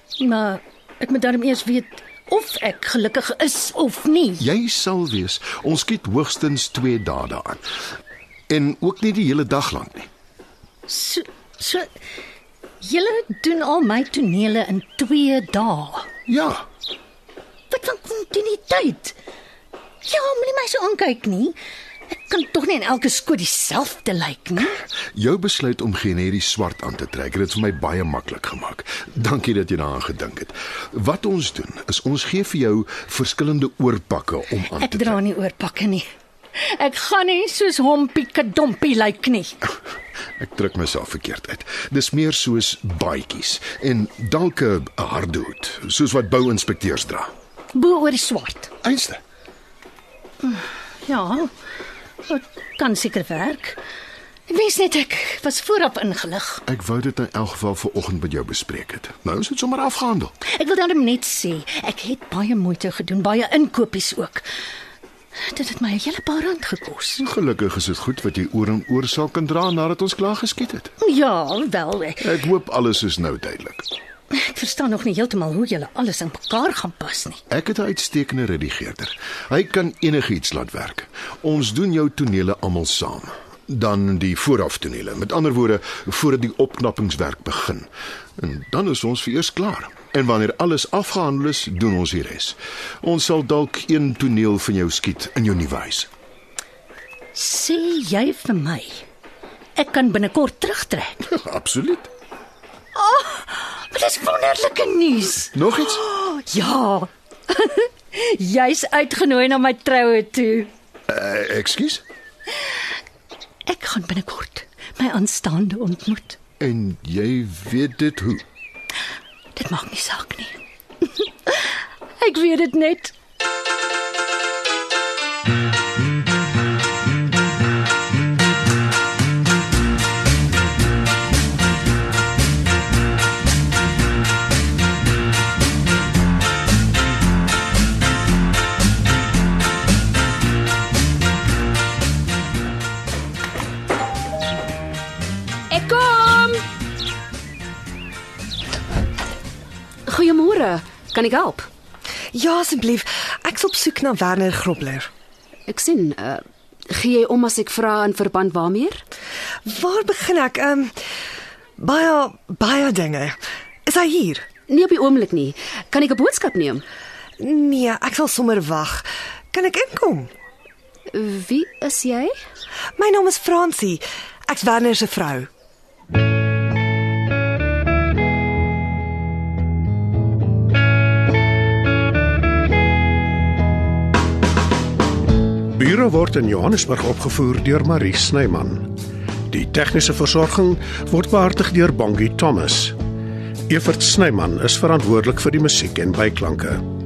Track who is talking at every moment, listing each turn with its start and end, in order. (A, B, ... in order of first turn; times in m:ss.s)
0:00.2-0:04.4 A
0:04.4-0:07.6 B
0:08.5-0:10.1 B
0:10.9-0:11.9 A
0:12.8-0:16.1 A
0:16.3-0:16.6 B
0:17.7-0:19.2 A
0:20.0-0:21.6 A
0:22.1-0:24.8 A
0:25.1-0:35.2 B
0:34.8-0:39.6 A
0:40.4-0:47.3 B
0:47.7-0:48.7 A
0:48.8-0:49.2 B
0:50.4-0:51.5 A
0:52.2-0:53.8 A
0:54.5-0:56.6 A
0:56.6-1:00.3 B
1:00.5-1:04.5 A
1:05.3-1:07.2 A
1:07.2-1:10.9 B
1:11.0-1:12.3 A
1:12.2-1:13.9 B
1:14.3-1:17.4 A
1:17.5-1:36.1 B
1:37.3-1:39.0 A
1:39.8-1:41.2 A
1:41.2-1:42.1 B
1:42.9-1:45.5 A
1:45.5-1:46.0 B
1:46.0-1:50.7 A
1:51.1-1:52.0 B
1:53.7-1:56.4 A
1:56.6-1:58.4 B
1:59.5-2:00.6 A
2:01.2-2:03.1 A
2:25.7-2:26.6 C
2:30.1-2:31.7 C
2:32.3-2:35.1 D
2:35.7-2:39.0 C
2:39.6-2:40.9 D
2:41.8-2:44.4 D
2:44.7-2:46.8 C
2:47.4-2:50.3 D
2:51.1-2:52.3 C
2:53.0-2:55.5 D
3:05.7-3:08.9 E
3:09.5-3:12.9 E
3:13.7-3:16.8 E